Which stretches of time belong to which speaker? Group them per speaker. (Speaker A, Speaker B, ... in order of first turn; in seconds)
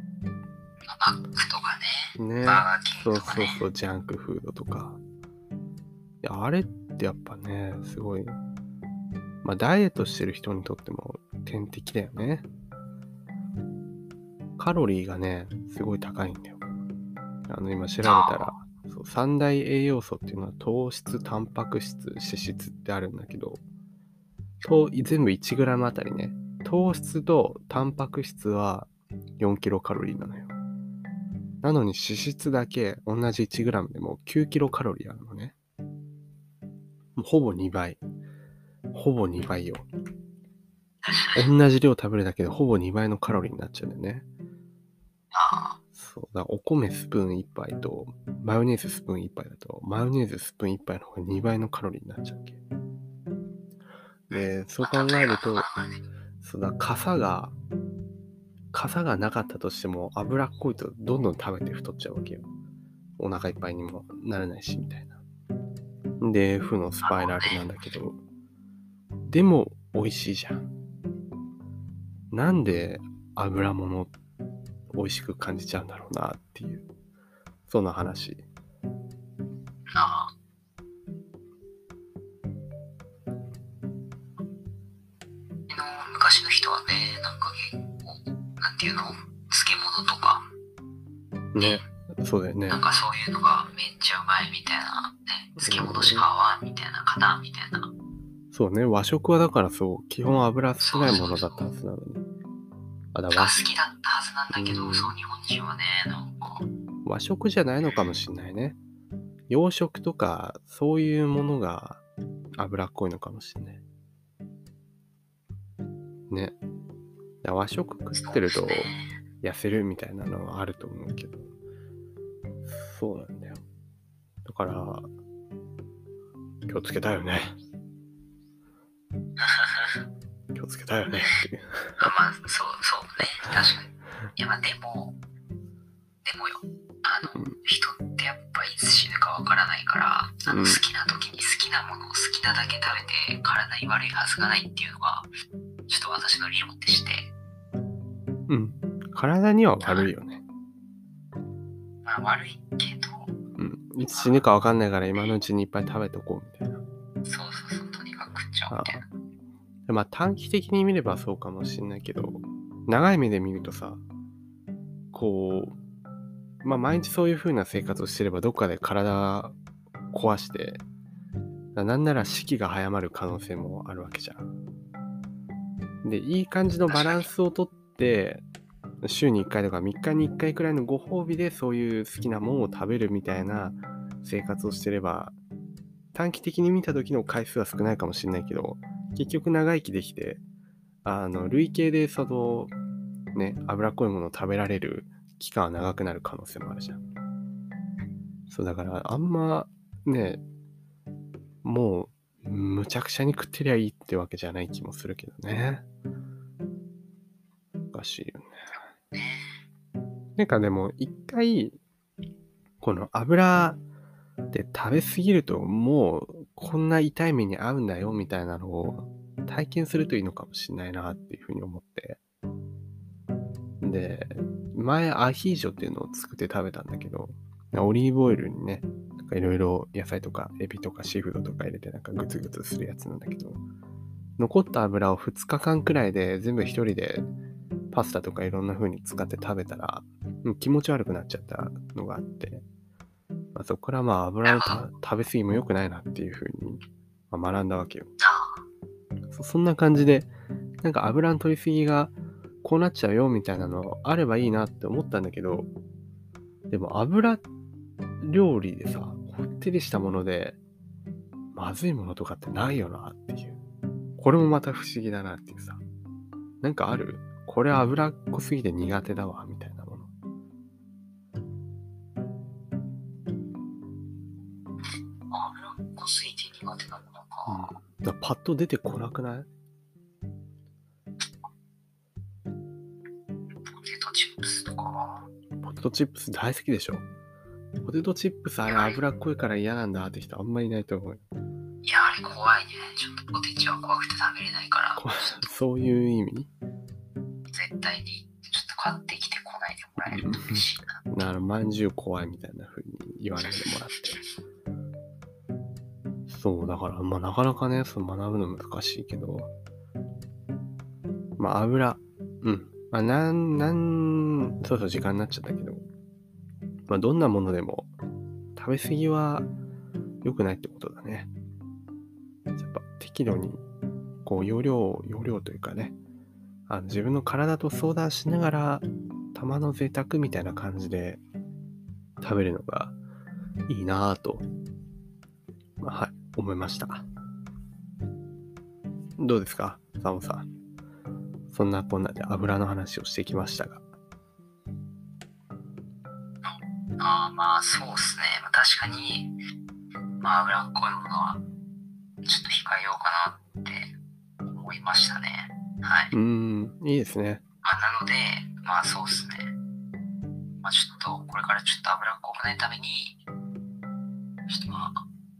Speaker A: 0.9-3.6, 18.0-18.5, 41.1-41.4, 45.3-45.8, 54.3-56.0, 67.0-67.7, 79.9-80.3, 85.7-90.5, 91.6-91.8, 92.7-97.9, 100.8-101.7, 103.3-106.7, 118.2-119.2, 129.4-130.0, 132.0-135.2, 136.2-145.3, 145.9-147.3, 149.8-150.1, 152.1-153.3, 157.3-159.1, 176.9-177.3, 209.1-209.5, 244.4-244.8, 248.2-248.5, 275.3-277.7, 283.6-285.3, 288.6-289.0, 291.8-295.4, 297.5-301.0, 346.4-349.4, 350.2-351.4, 352.2-353.9, 354.5-356.1, 357.6-359.5, 360.6-363.2, 364.5-365.0
Speaker B: 2.2-5.0, 6.2-8.4, 9.4-12.5, 14.6-16.6, 17.5-23.6, 24.6-30.5, 31.6-35.5, 37.2-38.0, 38.9-39.9, 41.4-44.2, 45.9-52.6, 54.3-55.7, 56.4-57.5, 58.7-62.5, 63.2-65.2, 66.2-68.2, 69.3-70.7, 72.3-74.1, 74.9-76.8, 77.7-78.4, 91.5-92.8, 95.6-96.3, 98.5-102.2, 103.1-103.6, 104.5-105.1, 107.0-108.8, 109.5-112.0, 112.6-113.8, 116.3-116.6, 117.4-121.5, 122.7-123.6, 124.5-125.1, 126.7-127.5, 130.5-132.1, 140.5-140.8, 148.5-150.4, 153.6-156.8, 158.7-159.1, 159.9-164.0, 165.1-165.8, 166.6-169.6, 170.1-170.8, 171.8-174.5, 176.0-178.4, 179.0-185.3, 186.1-190.4, 191.1-192.7, 193.3-197.0, 198.5-200.4, 201.6-205.8, 207.9-208.9, 210.4-211.8, 212.8-213.8, 214.5-222.2, 223.8-233.6, 234.4-237.3, 237.9-242.6, 243.6-248.1, 249.3-250.3, 250.8-255.7, 256.7-257.4, 258.2-260.6, 261.5-263.6, 264.2-265.8, 266.6-270.1, 277.5-279.5, 285.6-287.0, 287.8-291.2, 295.0-296.5, 300.1-304.2, 306.3-309.5, 311.4-315.8, 316.9-317.9, 318.6-319.5, 320.2-321.3, 322.6-323.6, 324.2-326.0, 326.7-331.2, 332.2-333.0, 333.7-334.5, 335.8-337.0, 339.2-340.5, 341.5-343.8, 356.1-357.4